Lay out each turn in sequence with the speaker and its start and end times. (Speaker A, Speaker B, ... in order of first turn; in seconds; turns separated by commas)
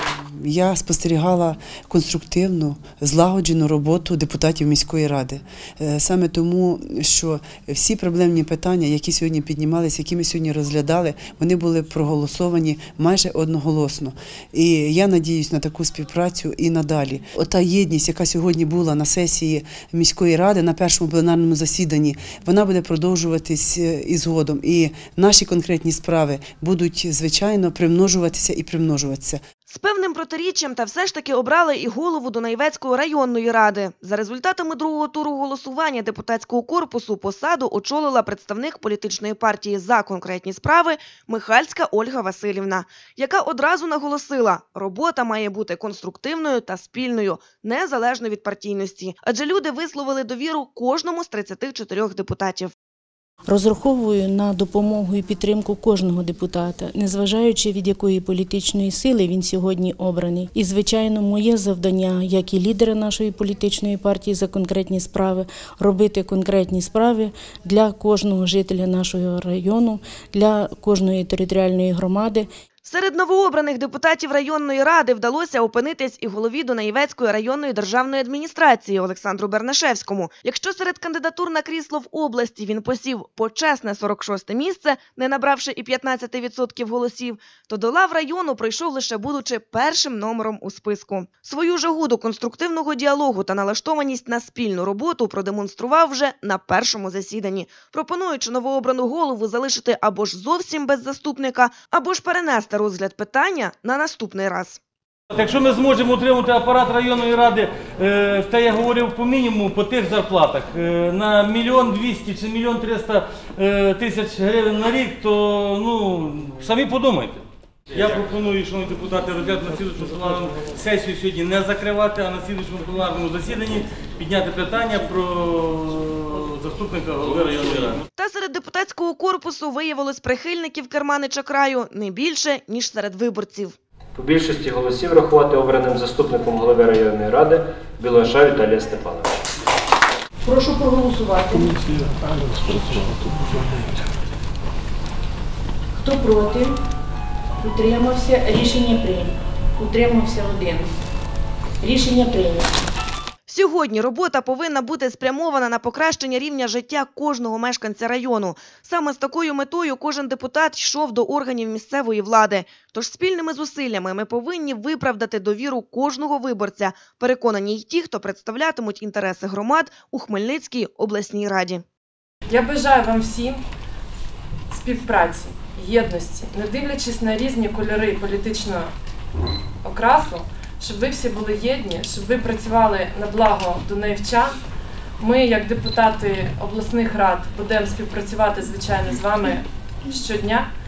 Speaker A: 0.3-29.4, Speaker B: 29.7-52.7, Speaker C: 53.5-72.5, Speaker B: 72.8-104.8, Speaker D: 105.3-128.0, Speaker B: 128.2-133.8, Speaker E: 134.2-139.5, Speaker C: 140.4-141.7, Speaker C: 146.0-146.7, Speaker C: 147.6-150.9, Speaker C: 151.8-152.7, Speaker B: 153.5-171.8, Speaker F: 172.5-173.6, Speaker F: 174.7-178.9, Speaker F: 179.8-184.6, Speaker F: 185.2-190.7